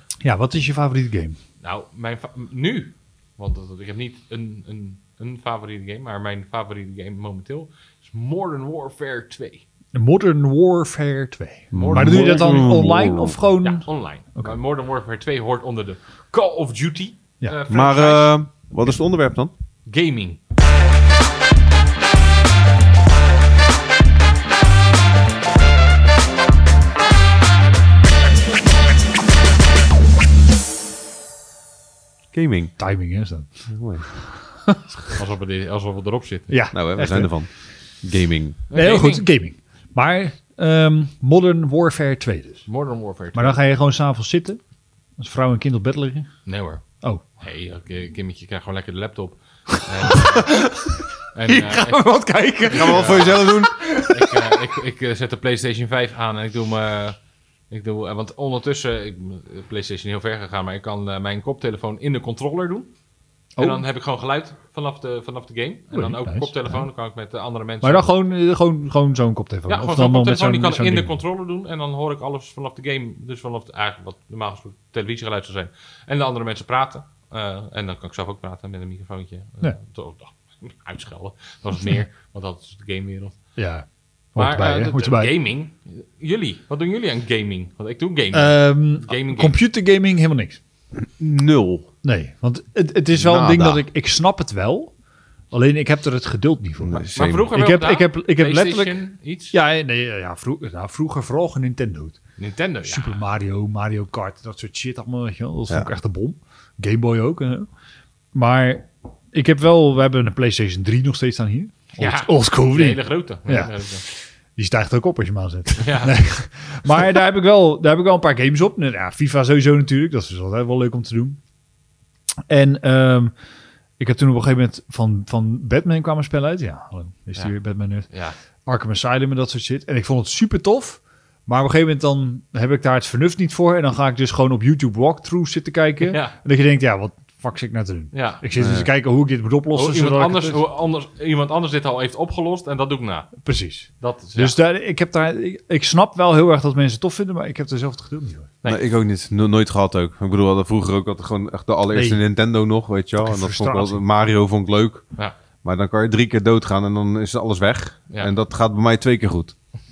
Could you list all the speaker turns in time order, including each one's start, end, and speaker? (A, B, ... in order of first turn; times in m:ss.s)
0:00.2-0:01.4 A
0:01.6-0:09.6 B
0:09.9-0:13.9 A
0:11.7-0:12.7 B
0:11.7-0:13.4 C
0:13.6-0:18.3 B
0:17.7-0:19.5 C
0:19.9-0:20.4 B
0:32.3-0:32.8 C
0:32.8-0:33.6 A
0:33.7-0:34.1 C
0:34.2-0:34.8 A
0:35.1-0:36.6 B
0:36.5-0:37.3 A
0:36.7-0:37.5 C
0:38.0-0:38.6 C
0:38.7-0:39.2 B
0:38.7-0:42.7 A
0:42.7-0:43.6 B
0:43.3-0:44.6 A
0:45.2-0:46.3 A
0:46.5-0:46.8 B
0:47.4-0:50.7 B
0:50.0-0:54.6 A
0:51.3-0:52.1 B
0:52.7-0:53.5 B
0:52.7-0:53.8 C
0:54.1-0:57.2 B
0:57.7-1:02.9 B
1:03.6-1:03.8 A
1:03.6-1:08.1 B
1:05.9-1:06.9 A
1:07.8-1:11.1 A
1:09.7-1:23.4 B
1:23.6-1:25.3 A
1:24.4-1:29.6 B
1:28.3-1:30.6 A
1:31.0-1:31.9 C
1:32.0-1:34.9 A
1:33.1-1:33.8 C
1:35.5-1:39.0 A
1:36.8-1:37.5 C
1:37.2-1:39.6 B
1:39.5-1:42.2 A
1:42.4-1:43.2 B
1:42.8-1:47.7 A
1:48.3-2:01.4 A
1:52.0-1:54.0 B
1:55.8-1:56.2 B
2:02.5-2:03.3 A
2:04.0-2:08.1 A
2:08.1-2:08.4 B
2:08.7-2:20.6 A
2:16.1-2:16.4 B
2:18.1-2:18.4 B
2:18.6-2:18.9 C
2:19.7-2:23.4 B
2:23.4-2:28.5 A
2:24.0-2:24.6 B
2:28.7-2:35.1 C
2:31.9-2:32.2 A
2:33.2-2:34.0 A
2:35.6-2:39.6 C